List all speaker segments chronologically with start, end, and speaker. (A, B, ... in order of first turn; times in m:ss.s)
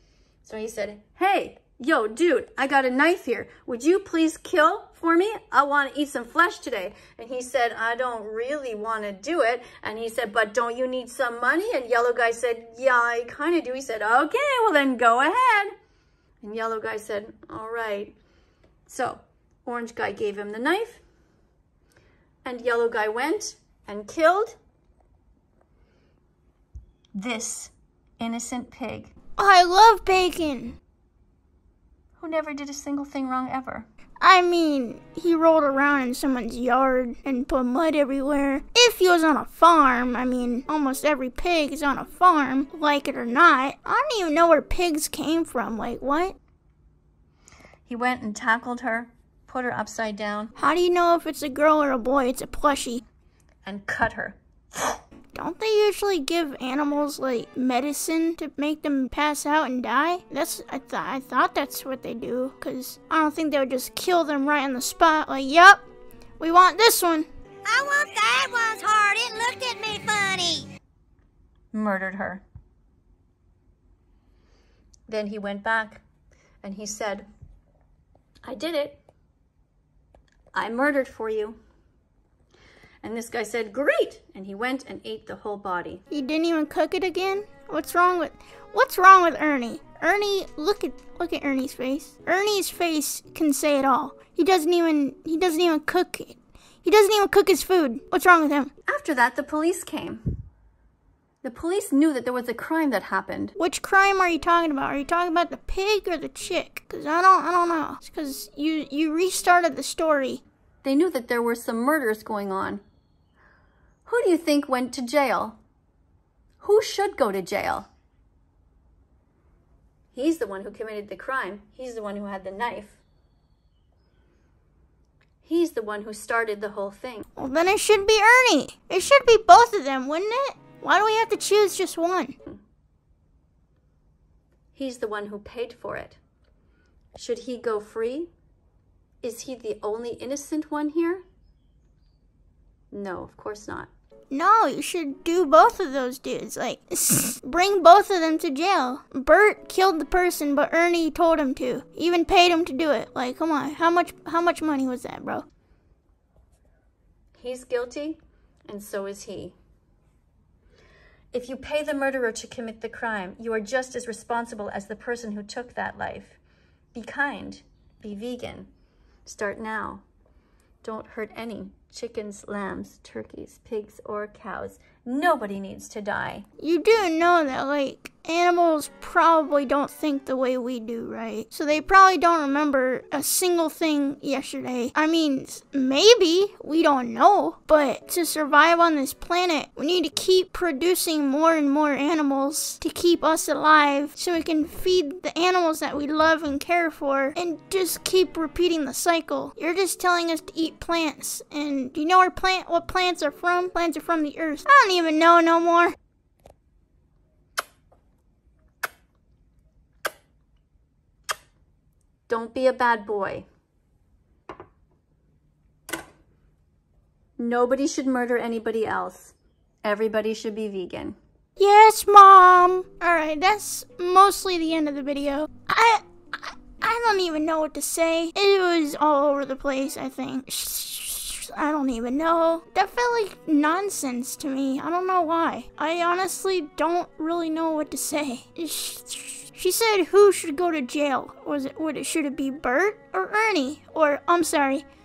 0:00.4-0:15.7 A
0:16.4-0:18.2 A
0:18.9-0:21.0 A
0:22.4-0:24.6 A
0:27.1-0:29.1 A
0:29.4-0:30.8 B
0:32.2-0:33.9 A
0:34.2-0:46.4 B
0:47.9-0:50.5 A
0:50.6-0:53.0 B
0:53.6-0:54.9 A
0:55.3-1:05.8 B
1:06.4-1:07.3 B
1:07.6-1:10.7 C
1:11.7-1:12.4 A
1:15.1-1:16.0 A
1:16.6-1:17.3 A
1:18.4-1:19.0 A
1:20.5-1:21.6 A
1:23.0-1:26.0 A
1:26.1-1:38.7 B
1:38.9-1:40.4 A
1:41.4-1:43.6 A
1:43.6-1:50.4 B
1:50.8-1:52.8 A
1:54.1-1:55.6 A
1:56.6-1:57.9 A
2:00.1-2:03.0 A
2:05.4-2:07.2 A
2:07.4-2:12.4 B
2:14.7-2:16.2 A
2:17.2-2:18.3 A
2:19.2-2:21.2 A
2:22.9-2:23.9 A
2:24.3-2:35.5 B
2:37.4-2:39.5 A
2:41.3-2:46.4 A
2:46.9-2:48.7 A
2:49.2-2:50.0 A
2:50.8-2:56.5 A
2:56.6-3:26.0 B
3:32.3-3:33.5 A
3:37.4-3:41.2 A
3:41.6-4:04.8 B